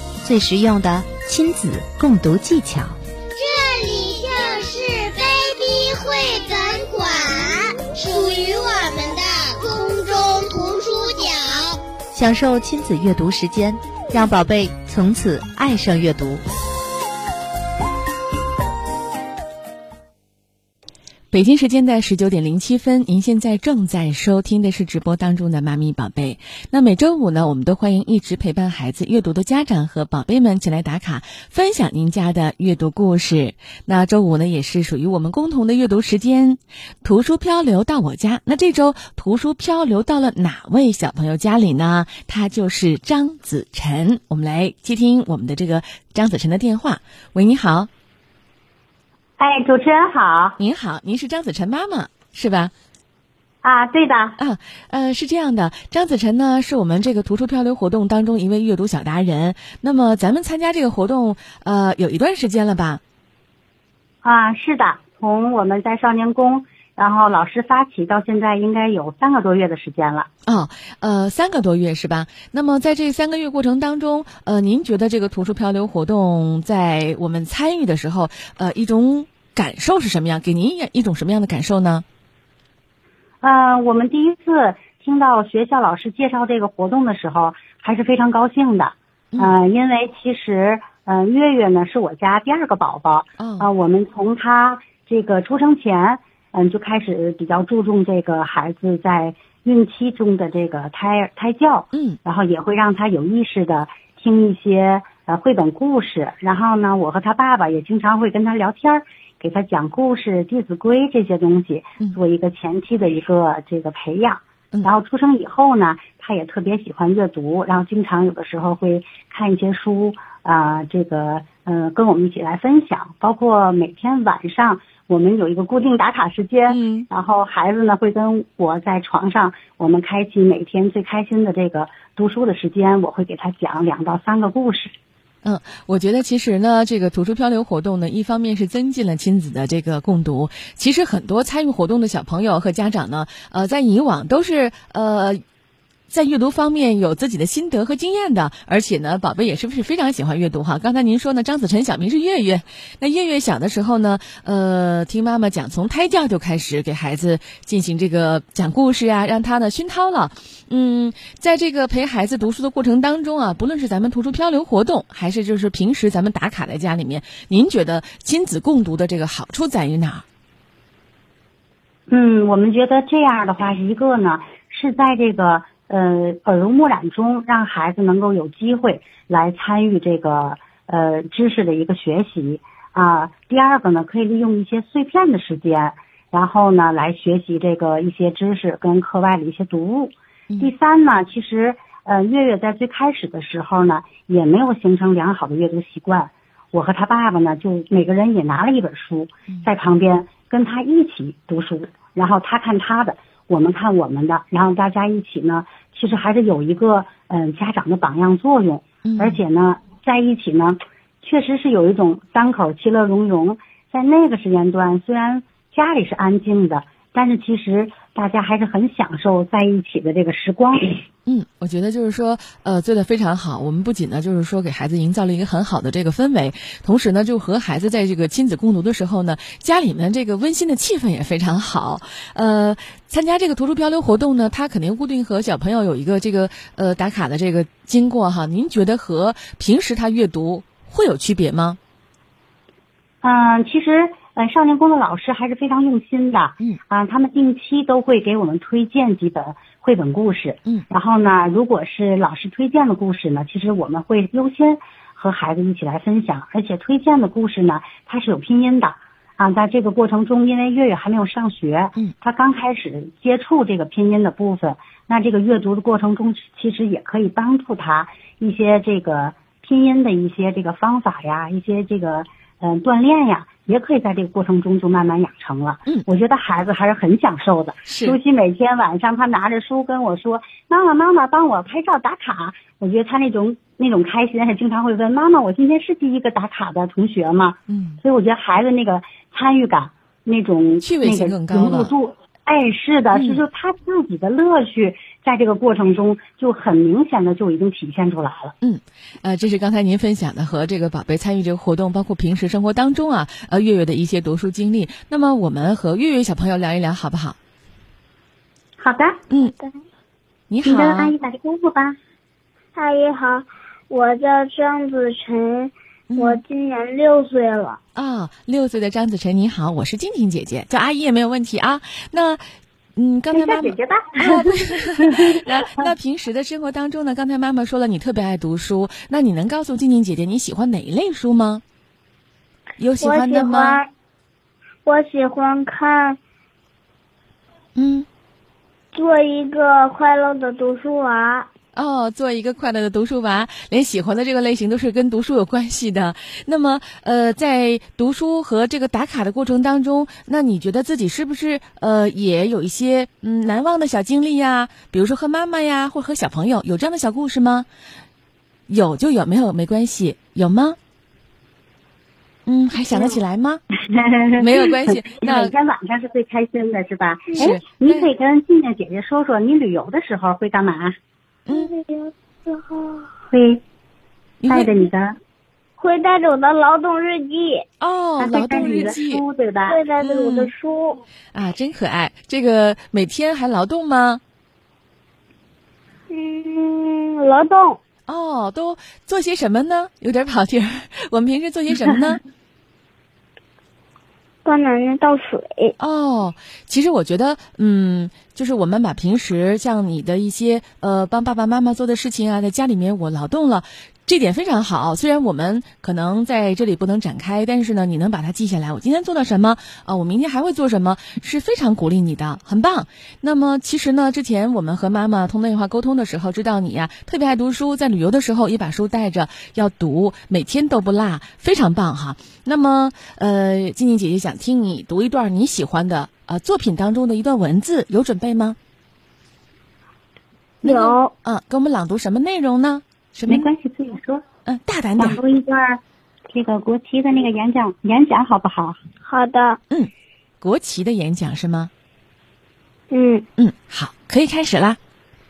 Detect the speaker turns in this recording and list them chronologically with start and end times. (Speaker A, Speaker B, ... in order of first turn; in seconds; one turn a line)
Speaker A: 0.2-3.0
Speaker B: 3.4-11.8
Speaker A: 12.2-16.4
Speaker C: 21.3-47.9
Speaker D: 49.4-50.6
Speaker C: 50.6-52.7
Speaker D: 53.6-54.4
Speaker C: 54.4-63.0
Speaker D: 64.2-70.3
Speaker C: 70.5-82.0
Speaker D: 83.4-134.9
Speaker C: 93.4-93.7
Speaker C: 126.7-127.1
Speaker C: 135.4-145.4
Speaker C: 146.1-170.2
Speaker D: 172.1-221.0
Speaker C: 209.1-209.4
Speaker C: 221.3-241.8
Speaker D: 243.2-298.5
Speaker C: 277.9-278.2
Speaker C: 287.7-288.0
Speaker C: 290.8-291.9
Speaker C: 293.1-293.4
Speaker C: 298.6-307.4
Speaker D: 308.8-309.2
Speaker E: 309.4-309.7
Speaker C: 310.5-311.1
Speaker D: 310.6-312.0
Speaker E: 312.8-317.8
Speaker C: 316.1-316.4
Speaker C: 317.9-322.4
Speaker C: 323.0-331.6
Speaker D: 323.3-325.9
Speaker C: 332.8-333.8
Speaker E: 333.0-333.9
Speaker E: 334.9-336.2
Speaker C: 337.8-338.1
Speaker E: 338.9-341.5
Speaker C: 341.7-357.7
Speaker C: 358.7-360.8
Speaker C: 362.5-363.6
Speaker D: 363.9-370.9
Speaker C: 364.4-365.5
Speaker C: 367.4-368.1
Speaker C: 371.5-371.7
Speaker E: 371.5-373.1
Speaker D: 373.3-373.6
Speaker C: 374.4-374.7
Speaker D: 374.5-375.2
Speaker E: 375.8-377.6
Speaker C: 377.8-379.2
Speaker D: 378.2-379.8
Speaker E: 379.7-381.0
Speaker C: 380.0-380.5
Speaker C: 381.3-384.2
Speaker E: 386.1-387.8
Speaker C: 388.1-392.2
Speaker E: 394.4-395.8
Speaker C: 395.8-428.6
Speaker C: 430.6-433.5
Speaker E: 430.6-431.1
Speaker D: 433.3-434.2
Speaker C: 434.5-435.2
Speaker D: 435.0-435.8
Speaker D: 436.3-438.8
Speaker E: 439.0-439.6
Speaker C: 439.7-441.7
Speaker E: 442.9-443.2
Speaker C: 443.4-444.8